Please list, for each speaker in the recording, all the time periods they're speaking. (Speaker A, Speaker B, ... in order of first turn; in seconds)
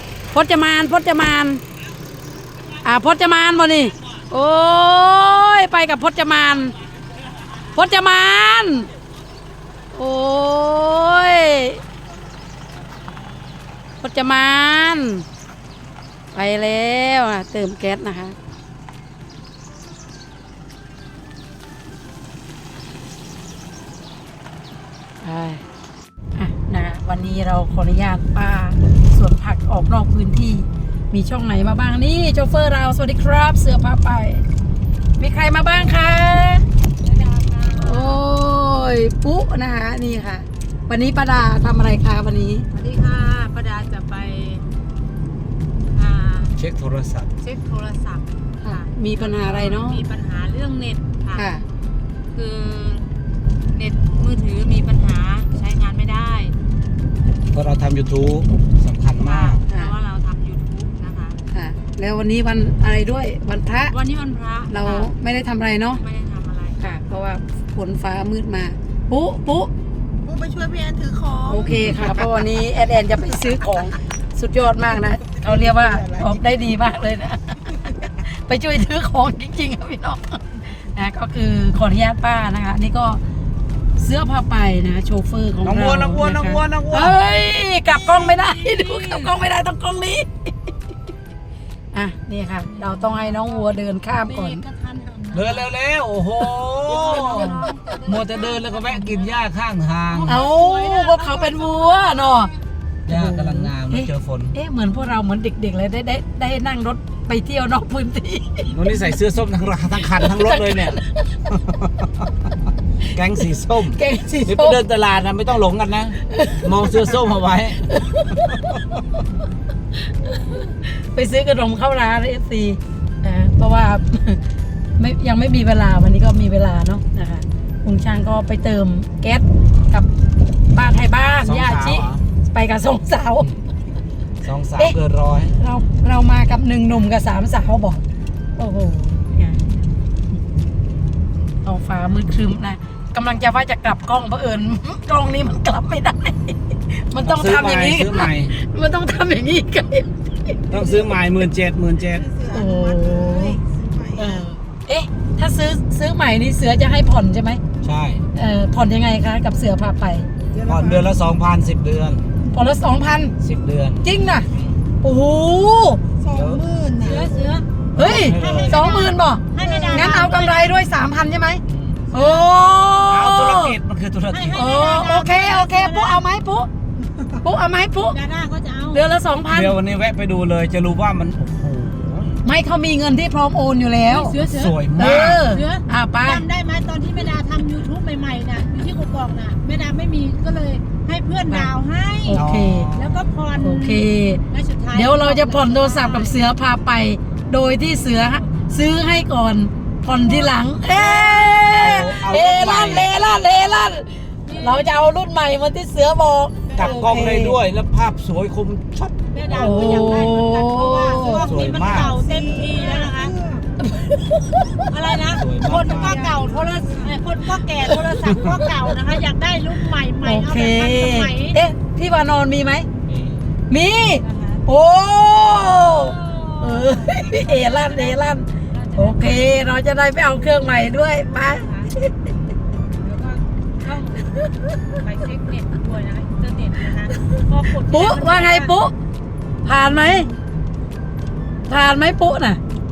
Speaker A: 0.3-1.6, 2.8-6.8, 7.7-8.9, 9.9-11.8, 14.0-15.2, 16.3-18.4, 25.2-25.6, 26.3-34.4, 35.2-36.6, 37.7-42.6, 48.6-50.0, 51.3-51.6, 61.5-63.9, 64.7-66.0, 66.8-69.7, 71.5-83.2, 84.0-90.3, 91.9-94.6, 97.1-97.6, 100.2-102.5, 103.1-108.7, 110.1-111.2, 113.9-114.8, 116.3-116.7, 117.9-118.4, 120.0-124.4, 125.0-130.1, 130.7-133.5, 135.6-138.0, 138.6-139.6, 141.6-146.6, 147.1-150.1, 152.4-153.6, 154.1-157.6, 158.3-160.3, 162.4-163.3, 164.0-164.5, 165.0-166.0, 167.9-173.7, 174.5-176.7, 177.4-178.2, 178.9-179.8, 182.4-184.4, 185.0-186.4, 192.2-192.9, 193.6-207.6, 209.5-211.4, 213.8-214.8, 218.2-218.5, 220.2-222.9, 223.7-232.1, 237.8-238.9, 239.6-240.3, 241.7-242.6
Speaker B: 37.0-38.2, 42.7-44.6, 45.9-46.5, 47.4-51.5, 52.3-53.0, 53.7-56.5, 59.2-61.4, 63.9-65.1, 65.9-66.8, 87.8-89.3, 92.7-95.7, 96.8-99.3, 100.1-102.4, 167.0-167.6, 168.2-170.8, 172.1-172.5, 174.3-176.2, 178.1-179.0, 184.1-192.4, 192.9-196.4, 197.9-198.4, 200.1-201.9, 204.4-204.9, 209.3-213.4, 214.9-221.6, 224.2-224.6, 225.8-229.5, 230.7-231.9, 232.9-234.4, 235.0-238.7
Speaker C: 46.5-47.3, 57.5-59.6, 85.6-87.2, 95.3-100.4, 103.1-104.5, 108.7-112.2, 113.1-118.8, 131.4-132.2, 134.4-135.6, 147.2-148.5, 150.7-152.3, 157.8-158.2, 160.6-162.2, 163.4-164.1, 166.3-166.7, 168.0-169.0, 171.7-172.0, 173.1-174.6, 179.5-182.4, 184.5-185.4, 192.3-193.3, 201.8-203.1, 206.7-209.1, 211.3-212.1, 215.3-216.3, 223.1-223.5
Speaker D: 70.2-71.6, 152.2-154.3, 160.6-160.9, 166.2-167.3, 169.6-170.1, 212.2-213.6, 215.8-217.1